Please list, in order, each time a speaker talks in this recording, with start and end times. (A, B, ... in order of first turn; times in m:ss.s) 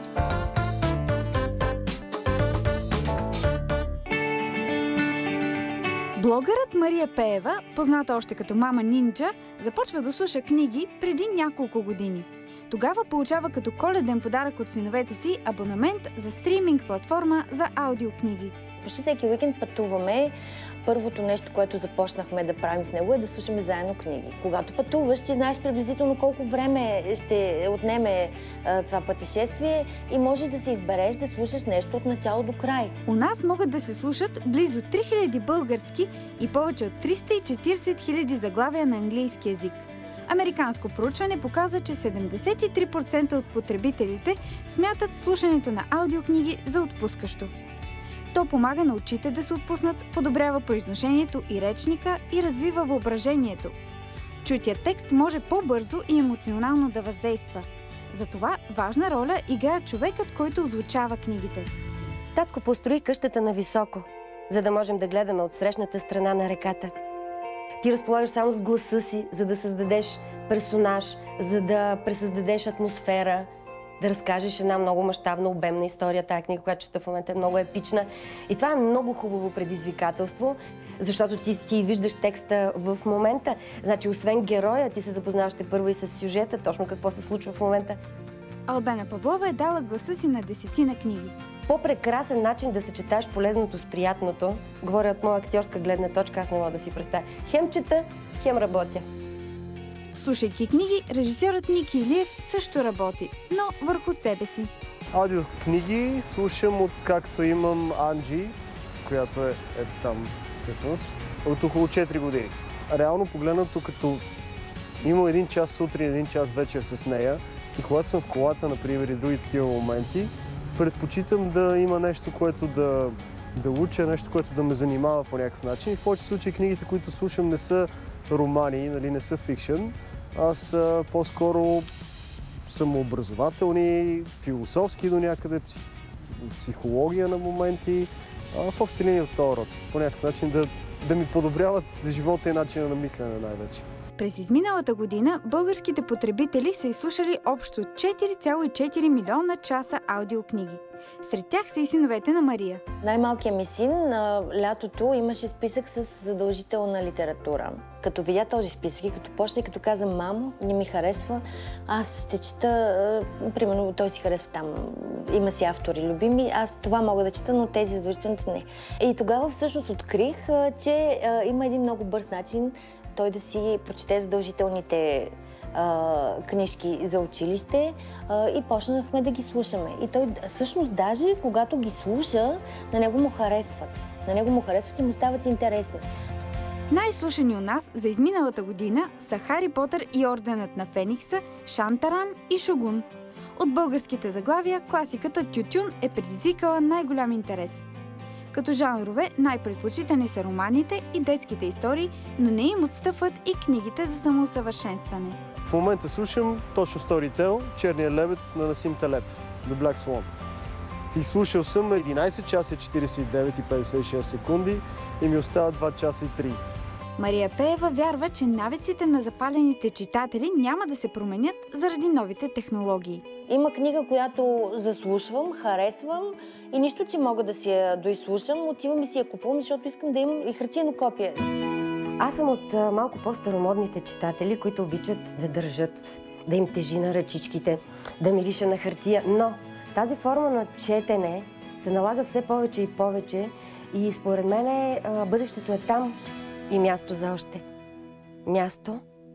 0:06.1-0:18.5 A
0:18.8-0:20.3 B
0:20.8-0:32.9 B
0:33.0-0:47.5 A
0:48.3-0:53.7 A
0:54.4-1:01.7 A
1:02.3-1:06.9 C
1:07.8-1:13.5 C
1:14.0-1:28.0 C
1:28.7-1:31.3 A
1:31.7-1:39.0 C
1:40.1-1:44.7 A
1:45.1-1:54.2 D
1:55.0-2:11.9 D
2:12.6-2:15.8 D
2:16.4-2:23.8 D
2:24.2-2:32.8 A
2:33.0-3:06.0 B
3:06.9-3:17.8 A
3:18.5-3:25.4 A
3:25.6-3:30.3 D
3:31.1-3:36.8 D
3:37.2-3:43.2 A
3:43.5-3:51.4 B
3:52.2-4:06.2 C
4:06.7-4:07.6 C
4:08.4-4:09.0 C